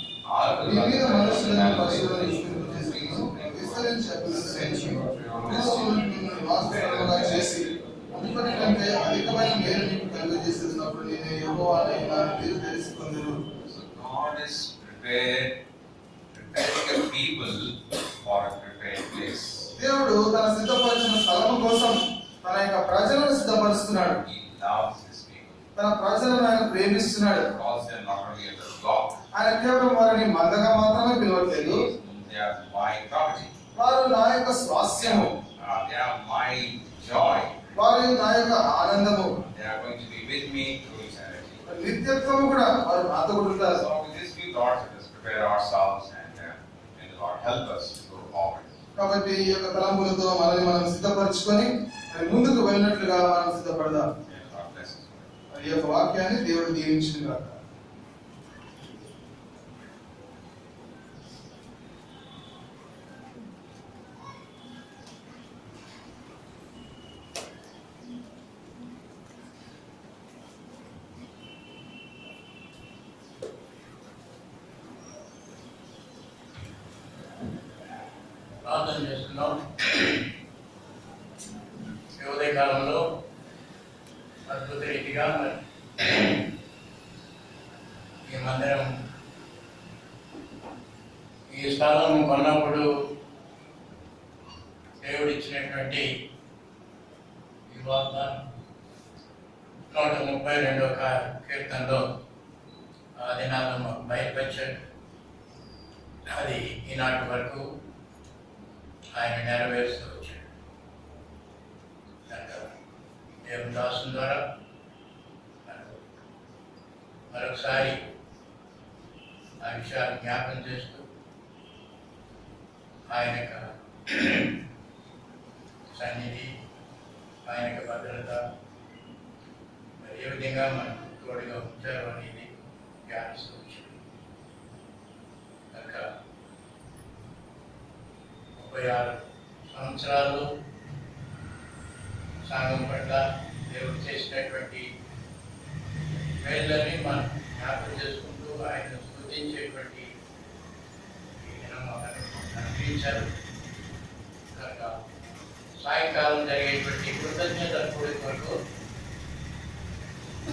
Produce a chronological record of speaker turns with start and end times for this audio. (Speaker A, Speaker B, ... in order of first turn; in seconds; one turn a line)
Speaker A: 0.2-6.0
Speaker B: 0.6-13.5
Speaker A: 6.7-7.4
Speaker A: 13.6-15.6
Speaker A: 16.3-19.7
Speaker B: 19.8-24.2
Speaker A: 24.2-25.6
Speaker B: 25.8-27.5
Speaker A: 27.5-29.2
Speaker B: 29.3-31.9
Speaker A: 31.5-33.5
Speaker B: 33.8-35.4
Speaker A: 35.0-37.6
Speaker B: 37.7-39.4
Speaker A: 39.4-41.6
Speaker B: 41.6-43.8
Speaker A: 43.7-48.7
Speaker B: 49.0-54.1
Speaker A: 54.3-55.2
Speaker B: 55.5-57.6
Speaker C: 78.6-80.3
Speaker C: 82.2-83.2
Speaker C: 84.5-86.5
Speaker C: 88.2-88.9
Speaker C: 91.5-92.9
Speaker C: 95.0-96.2
Speaker C: 97.7-98.5
Speaker C: 99.9-102.1
Speaker C: 103.2-104.8
Speaker C: 106.3-107.8
Speaker C: 109.1-110.4
Speaker C: 112.3-112.7
Speaker C: 113.4-114.6
Speaker C: 115.7-116.0
Speaker C: 117.3-118.1
Speaker C: 119.6-121.0
Speaker C: 123.1-124.6
Speaker C: 125.9-126.6
Speaker C: 127.4-128.5
Speaker C: 130.0-132.5
Speaker C: 133.0-133.9
Speaker C: 135.7-136.1
Speaker C: 138.6-140.5
Speaker C: 142.4-144.9
Speaker C: 146.4-150.1
Speaker C: 151.4-153.3
Speaker C: 154.5-155.0
Speaker C: 155.7-158.6